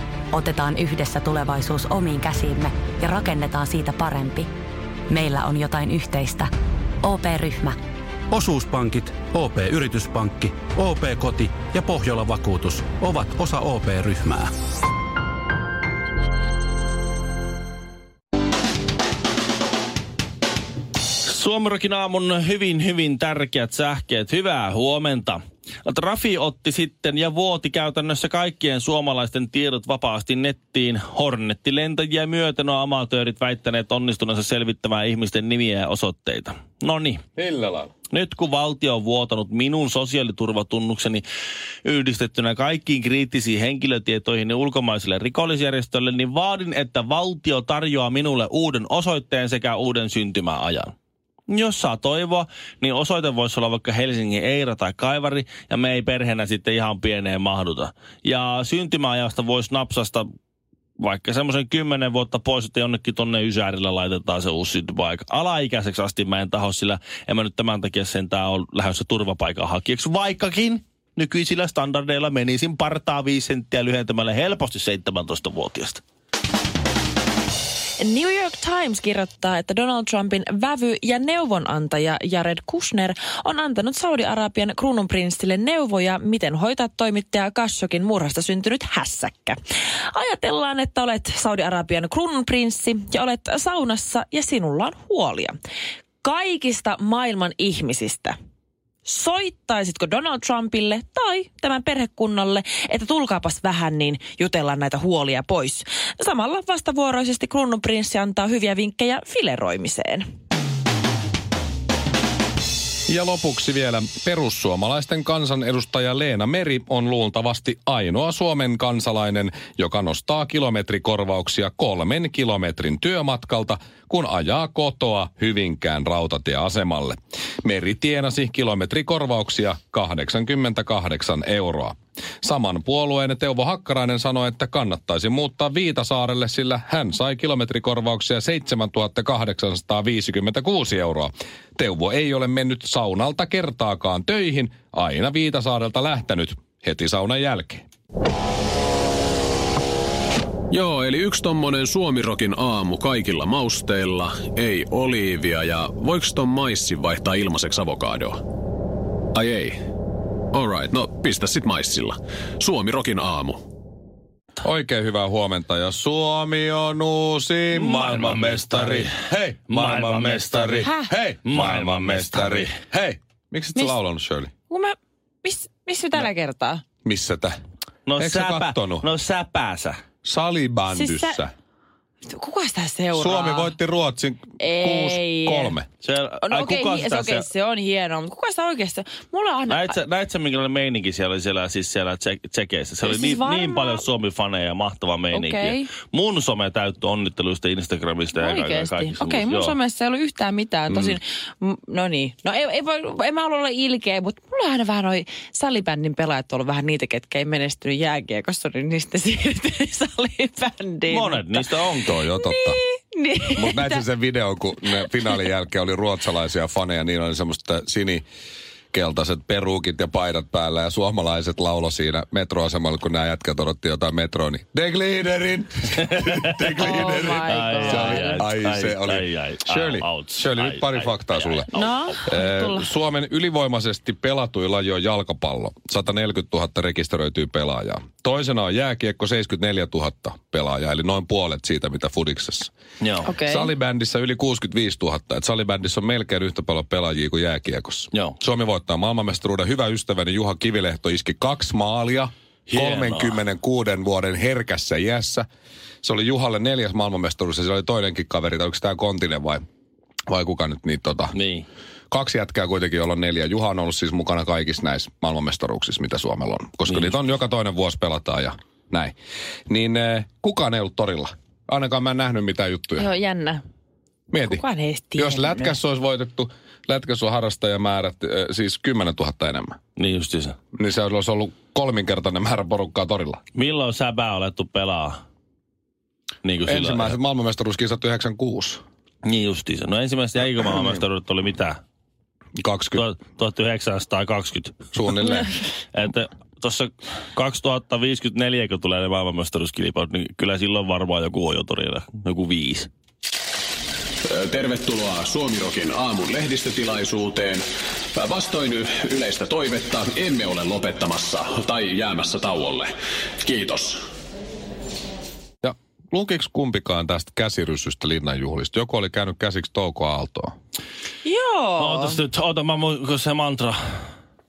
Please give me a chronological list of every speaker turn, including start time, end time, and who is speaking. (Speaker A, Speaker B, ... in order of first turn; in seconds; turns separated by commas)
Speaker A: 0.3-4.5, Speaker A: 5.1-6.5, Speaker A: 7.0-7.8, Speaker B: 8.3-14.5, Speaker C: 21.2-37.2, Speaker D: 37.4-37.9, Speaker C: 38.1-41.2, Speaker C: 41.9-50.9, Speaker C: 51.5-60.3, Speaker C: 61.0-76.0, Speaker E: 78.0-89.6, Speaker E: 90.1-95.6, Speaker E: 96.2-98.3, Speaker E: 99.0-110.2, Speaker D: 113.1-147.9, Speaker F: 150.7-158.4, Speaker F: 159.3-159.8, Speaker F: 160.5-163.6, Speaker D: 164.6-174.5, Speaker C: 167.7-170.9, Speaker E: 170.8-171.1, Speaker C: 171.4-172.7, Speaker E: 174.7-176.8, Speaker D: 177.1-177.6, Speaker C: 178.1-180.0, Speaker D: 178.2-179.1, Speaker D: 180.2-181.5, Speaker E: 180.9-181.4, Speaker E: 182.2-183.8, Speaker D: 183.1-185.9, Speaker E: 184.6-185.8, Speaker C: 186.0-187.5, Speaker E: 186.4-190.0, Speaker C: 189.7-199.8, Speaker E: 193.0-194.1, Speaker E: 195.3-195.9, Speaker E: 198.4-214.0, Speaker D: 200.9-201.2, Speaker C: 211.1-212.2, Speaker D: 212.1-212.8, Speaker D: 213.5-218.2, Speaker D: 218.9-231.7, Speaker C: 226.0-232.3, Speaker E: 226.8-228.5, Speaker E: 231.7-232.9, Speaker D: 232.3-242.7, Speaker C: 243.0-243.3, Speaker E: 243.2-243.7, Speaker D: 243.4-255.5, Speaker C: 252.7-253.4, Speaker D: 256.0-259.6, Speaker D: 260.3-261.3, Speaker C: 261.3-261.7, Speaker D: 262.1-269.1, Speaker C: 266.9-267.2, Speaker D: 269.7-273.1, Speaker E: 273.0-273.6, Speaker D: 274.3-274.6, Speaker E: 274.4-275.8, Speaker D: 275.2-279.8, Speaker C: 280.0-280.6, Speaker D: 280.7-283.4, Speaker C: 283.6-285.2, Speaker C: 286.4-287.2, Speaker D: 286.7-288.8, Speaker C: 289.2-291.8, Speaker D: 292.6-293.1, Speaker C: 293.0-295.4, Speaker D: 294.9-295.5, Speaker C: 295.9-302.9, Speaker F: 304.3-307.6, Speaker F: 308.1-312.9, Speaker F: 313.4-314.0, Speaker D: 315.6-320.6, Speaker E: 321.2-322.2, Speaker C: 321.8-324.0